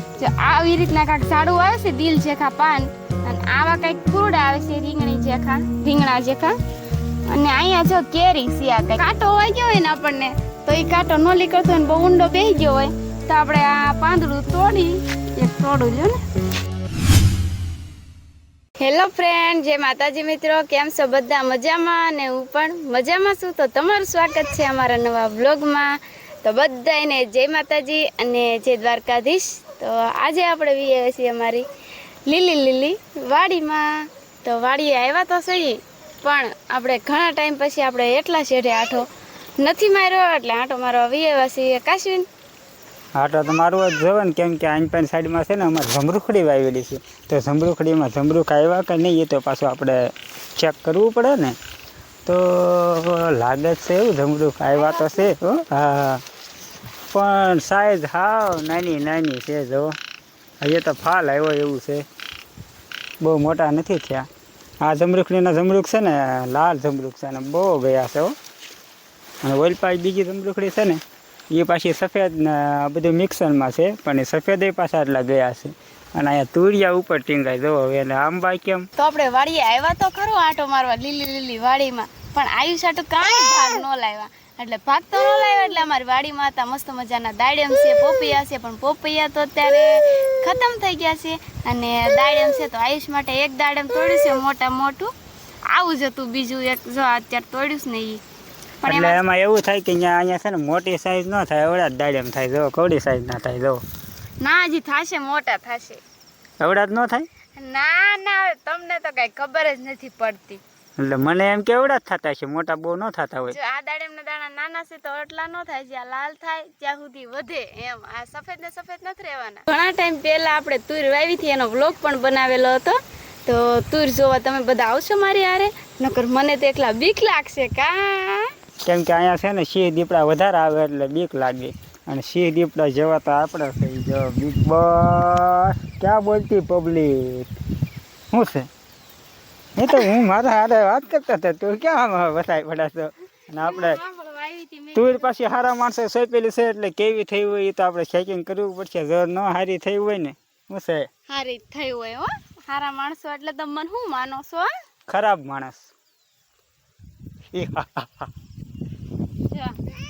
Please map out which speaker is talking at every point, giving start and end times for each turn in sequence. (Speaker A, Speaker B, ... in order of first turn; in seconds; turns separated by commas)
Speaker A: 0.2-6.5, Speaker A: 7.3-16.2, Speaker A: 18.8-25.9, Speaker A: 26.4-31.6, Speaker A: 32.3-33.9, Speaker A: 34.4-39.0, Speaker A: 39.6-42.3, Speaker B: 43.1-51.5, Speaker B: 52.2-56.2, Speaker A: 54.7-55.3, Speaker B: 57.1-60.0, Speaker B: 60.6-62.0, Speaker B: 63.2-64.3, Speaker B: 64.8-68.3, Speaker B: 69.4-71.0, Speaker B: 71.5-78.9, Speaker A: 79.0-95.1, Speaker A: 95.7-98.2, Speaker A: 98.8-99.2, Speaker B: 98.8-103.8, Speaker A: 104.4-106.0, Speaker B: 106.6-107.3, Speaker A: 107.6-110.6, Speaker B: 111.0-113.6, Speaker A: 113.5-128.5, Speaker B: 128.8-137.5, Speaker B: 138.3-138.7, Speaker B: 139.8-144.0, Speaker A: 143.6-145.3, Speaker B: 144.9-151.1, Speaker A: 151.3-154.7, Speaker B: 155.1-155.9, Speaker B: 157.5-158.3, Speaker A: 159.5-159.9